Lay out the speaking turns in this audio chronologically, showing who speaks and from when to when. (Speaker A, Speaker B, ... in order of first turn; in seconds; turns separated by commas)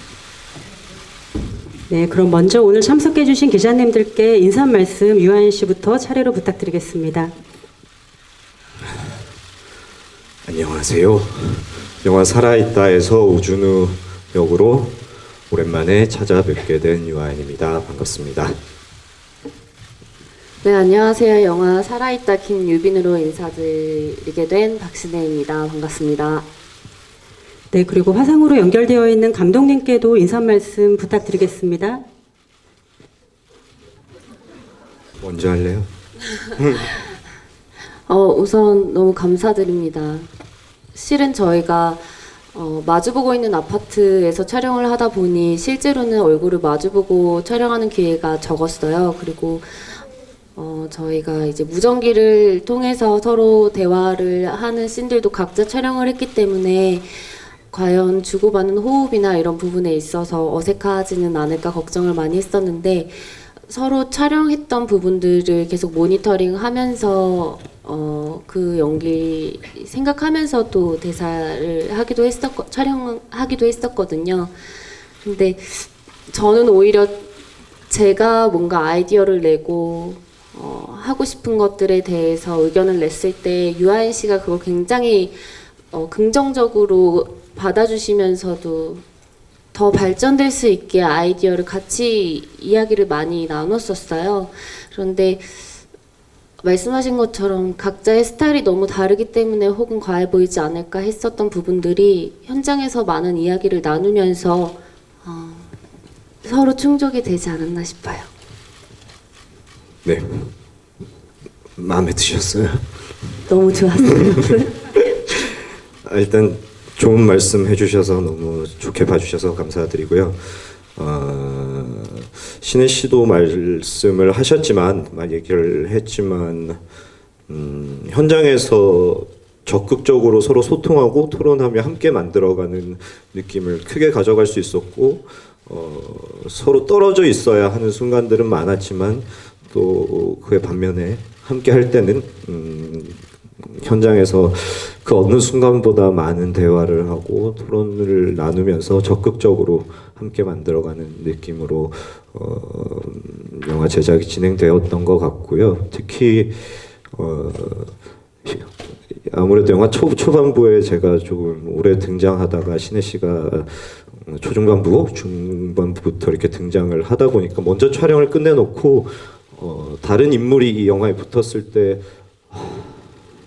Speaker A: 1.9-7.3, Speaker B: 10.5-15.0, Speaker B: 15.5-18.6, Speaker C: 20.6-26.5, Speaker A: 27.7-32.0, Speaker B: 35.2-35.9, Speaker B: 36.6-36.9, Speaker C: 38.1-40.3, Speaker C: 40.9-50.0, Speaker C: 50.6-74.6, Speaker C: 75.2-77.3, Speaker C: 77.9-89.0, Speaker C: 89.7-95.8, Speaker C: 96.6-105.7, Speaker C: 106.4-108.3, Speaker B: 110.0-110.5, Speaker B: 111.8-112.8, Speaker C: 113.5-114.8, Speaker B: 116.0-126.8, Speaker B: 127.5-173.1